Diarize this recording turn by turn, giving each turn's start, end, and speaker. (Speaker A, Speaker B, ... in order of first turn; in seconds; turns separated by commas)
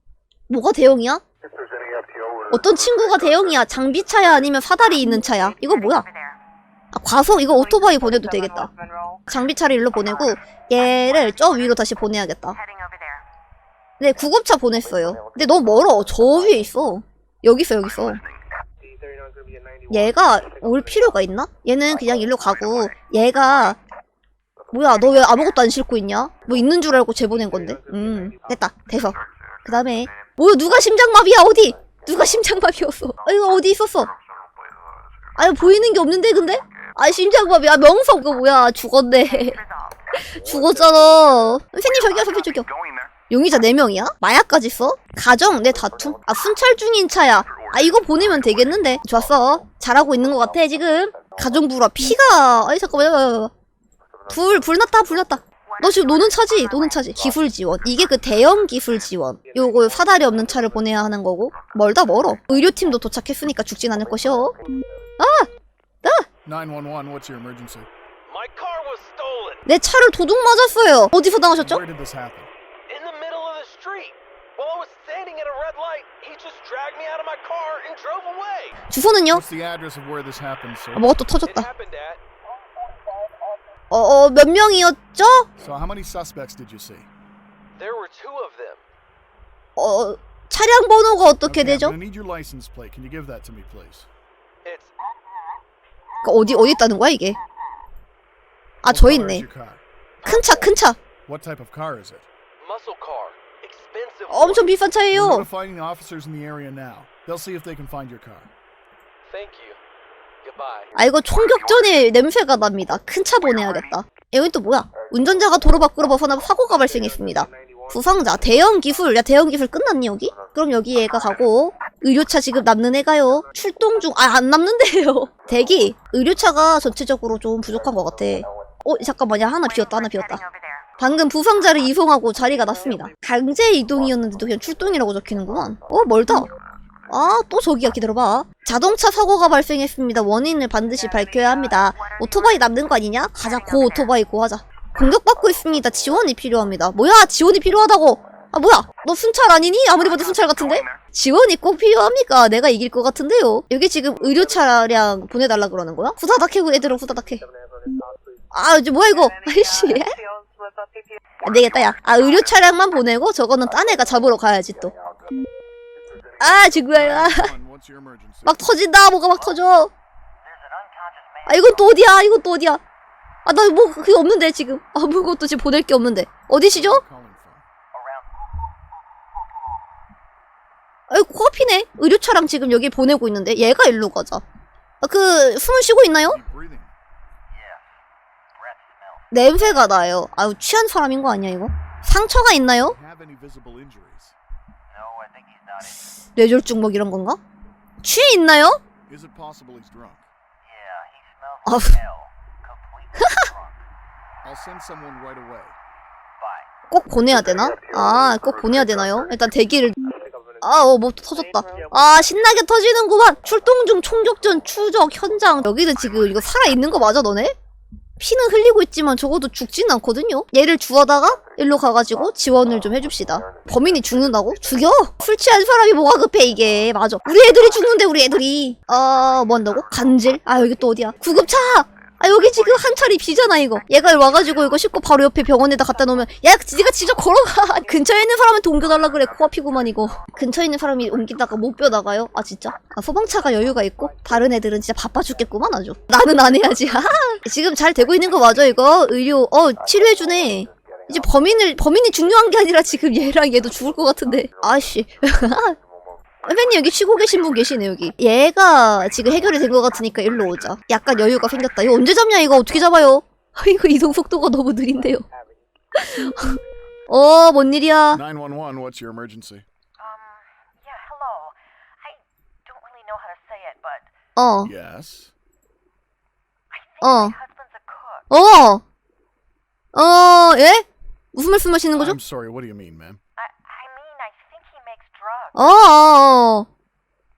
Speaker A: 0.5-1.2, Speaker A: 2.5-6.1, Speaker A: 6.9-8.7, Speaker A: 9.3-12.6, Speaker A: 14.0-18.2, Speaker A: 19.9-23.8, Speaker A: 24.7-34.1, Speaker A: 35.4-42.7, Speaker A: 43.3-53.5, Speaker A: 54.3-64.6, Speaker A: 65.2-65.5, Speaker B: 66.5-67.9, Speaker C: 68.3-69.7, Speaker A: 69.7-71.8, Speaker B: 71.5-72.5, Speaker C: 72.9-78.8, Speaker A: 78.9-79.4, Speaker B: 79.3-81.2, Speaker A: 81.0-81.7, Speaker C: 81.4-82.2, Speaker A: 83.9-85.5, Speaker B: 85.6-87.1, Speaker C: 87.8-88.8, Speaker A: 89.8-92.0, Speaker B: 91.5-94.1, Speaker C: 94.6-94.9, Speaker A: 96.2-97.4, Speaker A: 98.8-99.5, Speaker B: 98.8-100.2, Speaker A: 100.2-101.0, Speaker B: 101.2-102.3, Speaker C: 102.6-104.7, Speaker A: 104.3-105.5, Speaker B: 105.1-108.5, Speaker C: 109.3-109.8, Speaker C: 110.4-110.9, Speaker A: 111.0-130.4, Speaker A: 131.0-136.5, Speaker A: 137.1-157.4, Speaker A: 158.5-160.2, Speaker A: 161.4-164.9, Speaker A: 166.4-167.5, Speaker B: 166.9-168.8, Speaker A: 168.4-169.9, Speaker D: 170.5-171.5, Speaker A: 171.5-172.8, Speaker A: 173.5-177.0, Speaker B: 176.7-177.7, Speaker A: 181.1-184.4, Speaker A: 185.0-186.4, Speaker B: 186.2-186.9, Speaker A: 189.3-193.0, Speaker B: 192.8-194.4, Speaker D: 195.0-195.7, Speaker A: 195.9-197.4, Speaker A: 198.0-198.8, Speaker B: 199.1-200.3, Speaker D: 200.7-201.3, Speaker A: 201.7-202.0, Speaker D: 202.2-203.4, Speaker A: 203.2-203.5, Speaker B: 204.4-205.8, Speaker A: 206.9-210.0, Speaker A: 210.6-217.6, Speaker A: 218.2-255.8, Speaker A: 256.5-265.3, Speaker A: 265.9-266.6, Speaker A: 267.1-268.2, Speaker B: 268.1-269.6, Speaker D: 270.0-274.1, Speaker A: 274.4-274.7, Speaker B: 274.6-275.3, Speaker D: 276.7-278.3, Speaker A: 277.0-277.3, Speaker A: 278.3-278.8, Speaker A: 279.9-282.2, Speaker B: 281.9-283.2, Speaker D: 283.4-285.6, Speaker A: 285.6-286.7